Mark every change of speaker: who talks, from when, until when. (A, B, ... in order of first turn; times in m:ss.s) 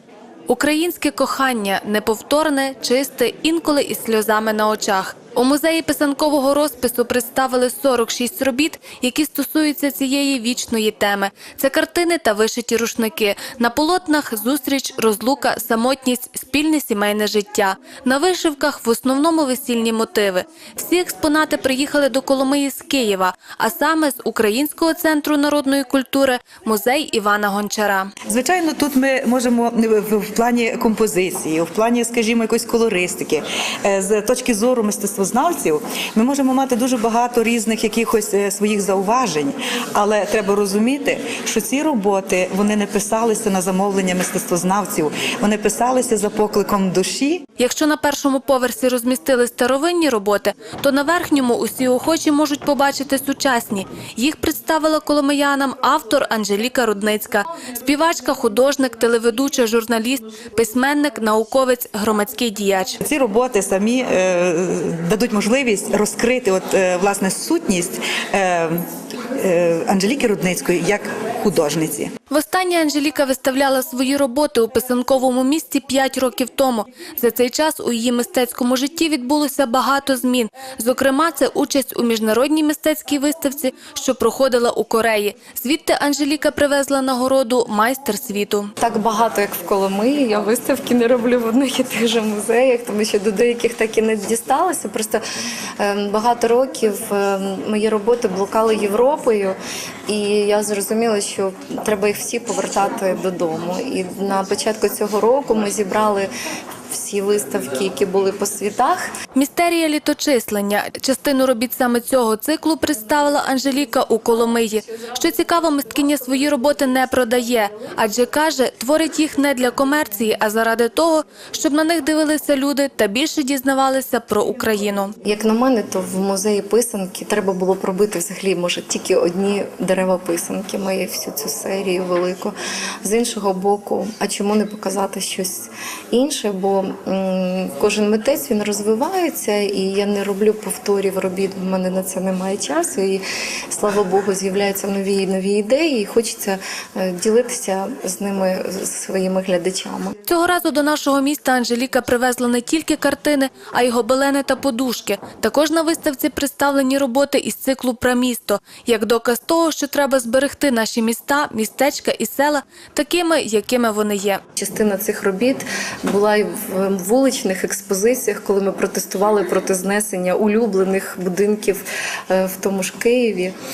0:00.5-0:28.1 A
0:28.3-0:47.4 B
0:47.6-1:03.0 A
1:03.0-1:08.8 B
1:09.4-1:12.1 B
1:12.3-1:28.7 A
1:28.8-1:35.2 C
1:35.8-1:39.6 C
1:40.1-1:46.3 C
1:46.9-1:49.0 C
1:49.3-2:05.1 A
2:05.2-2:30.1 C
2:30.2-2:44.4 A
2:44.6-2:53.5 C